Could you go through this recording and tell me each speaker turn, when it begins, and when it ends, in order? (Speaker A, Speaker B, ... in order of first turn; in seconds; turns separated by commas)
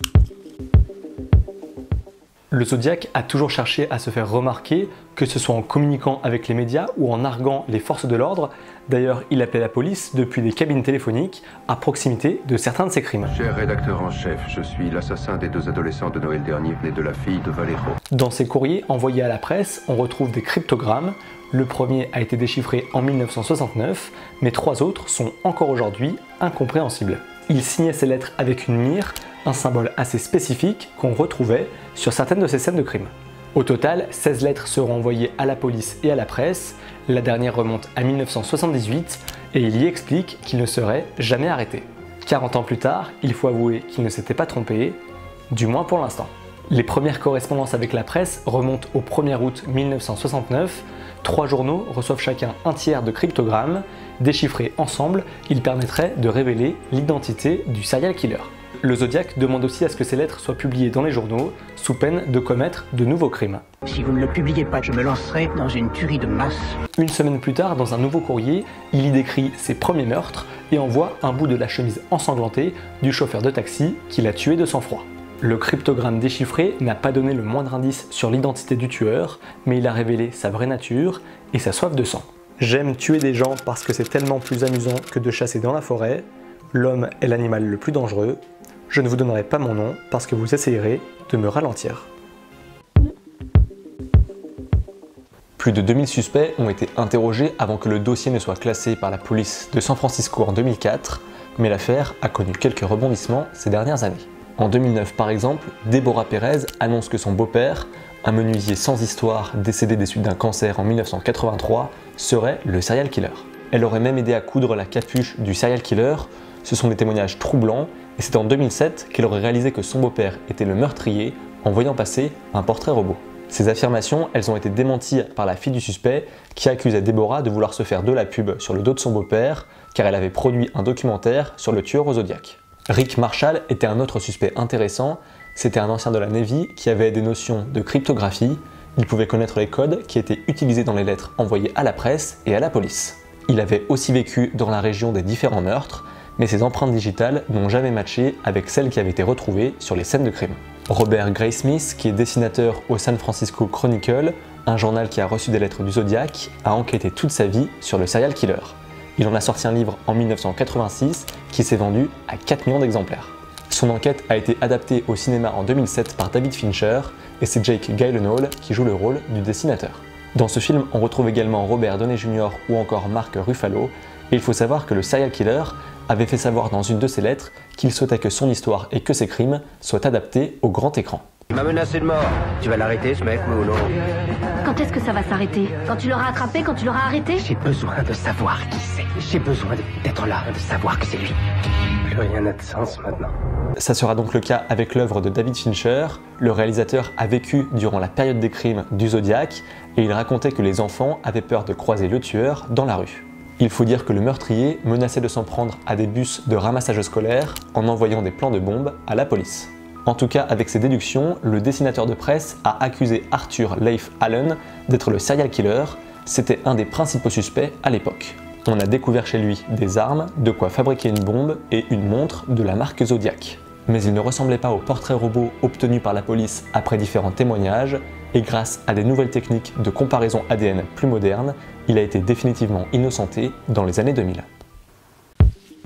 Speaker A: 2.5-13.3, Speaker B: 13.3-18.0, Speaker A: 18.1-45.0, Speaker A: 45.5-63.6, Speaker C: 63.9-66.8, Speaker A: 66.9-92.1, Speaker A: 95.6-181.3, Speaker C: 181.5-183.9, Speaker D: 184.6-187.4, Speaker C: 187.4-191.4, Speaker C: 192.0-193.3, Speaker A: 193.8-234.4